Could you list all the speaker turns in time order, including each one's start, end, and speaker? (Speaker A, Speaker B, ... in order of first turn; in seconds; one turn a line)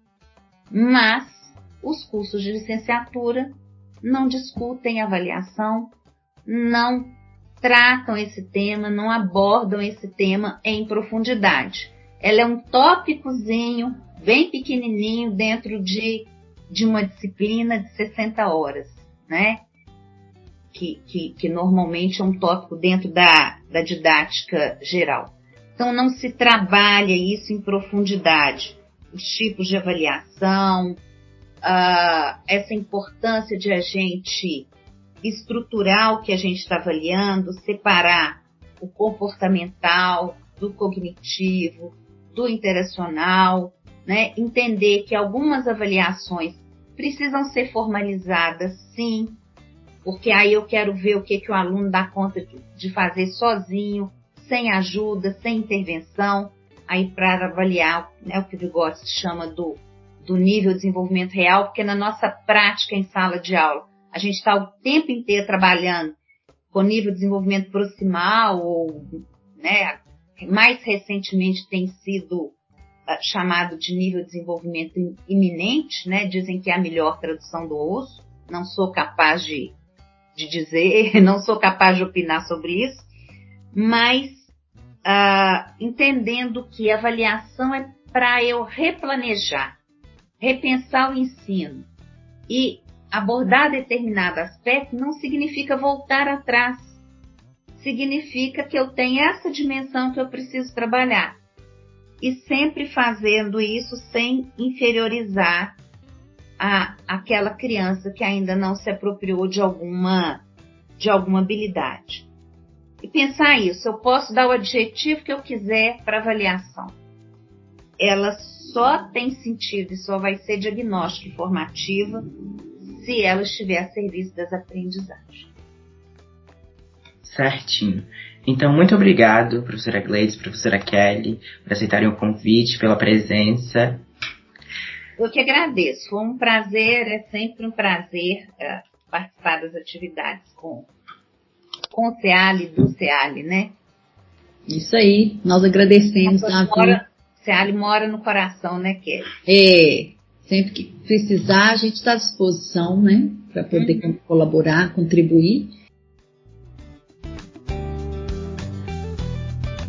Speaker A: 0.7-5.9
Speaker A: 6.5-19.6
Speaker A: 20.7-31.0
Speaker A: 31.6-34.7
Speaker A: 35.2-49.4
Speaker A: 50.0-66.2
Speaker A: 66.7-72.5
Speaker A: 73.1-79.8
Speaker A: 80.3-83.1
Speaker A: 83.7-84.5
Speaker A: 85.0-89.7
Speaker A: 90.4-91.9
Speaker A: 92.5-97.0
Speaker A: 97.8-101.4
Speaker A: 102.2-105.7
Speaker A: 106.6-110.4
Speaker A: 111.0-112.3
Speaker A: 113.0-117.0
Speaker A: 118.0-122.2
Speaker A: 122.9-125.5
Speaker B: 127.2-134.0
Speaker A: 135.2-140.9
Speaker A: 141.9-143.8
Speaker C: 144.7-147.0
Speaker A: 146.2-149.3
Speaker C: 149.5-155.8
Speaker A: 153.7-154.1